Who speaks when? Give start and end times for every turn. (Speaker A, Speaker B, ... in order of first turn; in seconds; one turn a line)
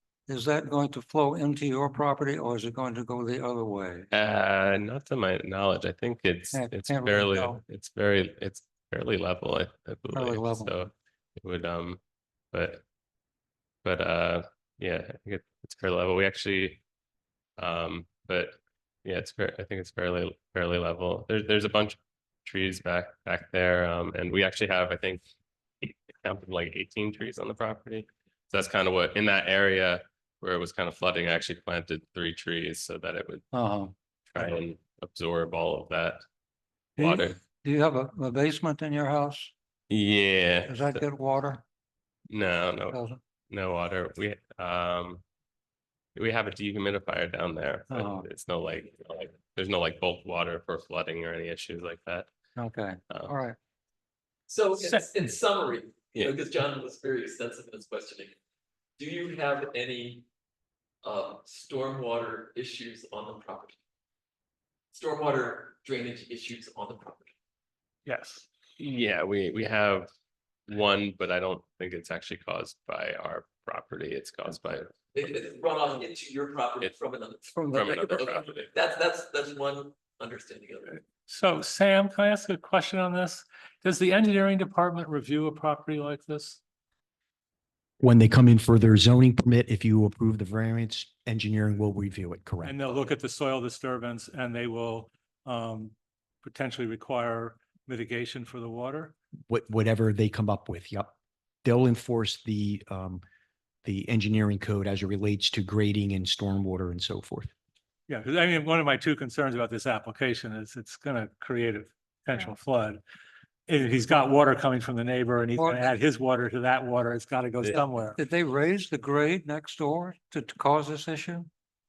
Speaker A: 0.3-4.1
Speaker B: 4.1-12.0
Speaker A: 6.5-7.6
Speaker A: 10.1-10.7
Speaker B: 12.5-12.8
Speaker B: 13.8-16.8
Speaker B: 17.6-25.3
Speaker B: 25.8-33.5
Speaker A: 33.5-33.9
Speaker B: 34.3-36.2
Speaker B: 37.0-37.4
Speaker A: 37.0-39.5
Speaker B: 39.9-41.0
Speaker A: 40.7-41.6
Speaker B: 42.3-43.0
Speaker A: 42.9-43.2
Speaker B: 43.5-45.2
Speaker B: 46.1-52.3
Speaker A: 47.9-48.3
Speaker A: 52.6-53.5
Speaker B: 53.1-53.3
Speaker C: 54.5-58.3
Speaker C: 59.0-60.2
Speaker C: 61.0-63.8
Speaker C: 64.9-67.3
Speaker D: 68.0-68.5
Speaker B: 68.8-70.1
Speaker B: 70.7-74.9
Speaker C: 75.1-81.0
Speaker A: 77.5-78.0
Speaker B: 77.7-78.7
Speaker D: 81.3-86.6
Speaker E: 88.0-93.0
Speaker D: 92.6-99.2
Speaker E: 99.5-103.2
Speaker E: 103.8-107.5
Speaker D: 108.1-113.0
Speaker D: 113.7-118.2
Speaker A: 115.5-115.9
Speaker A: 117.7-121.5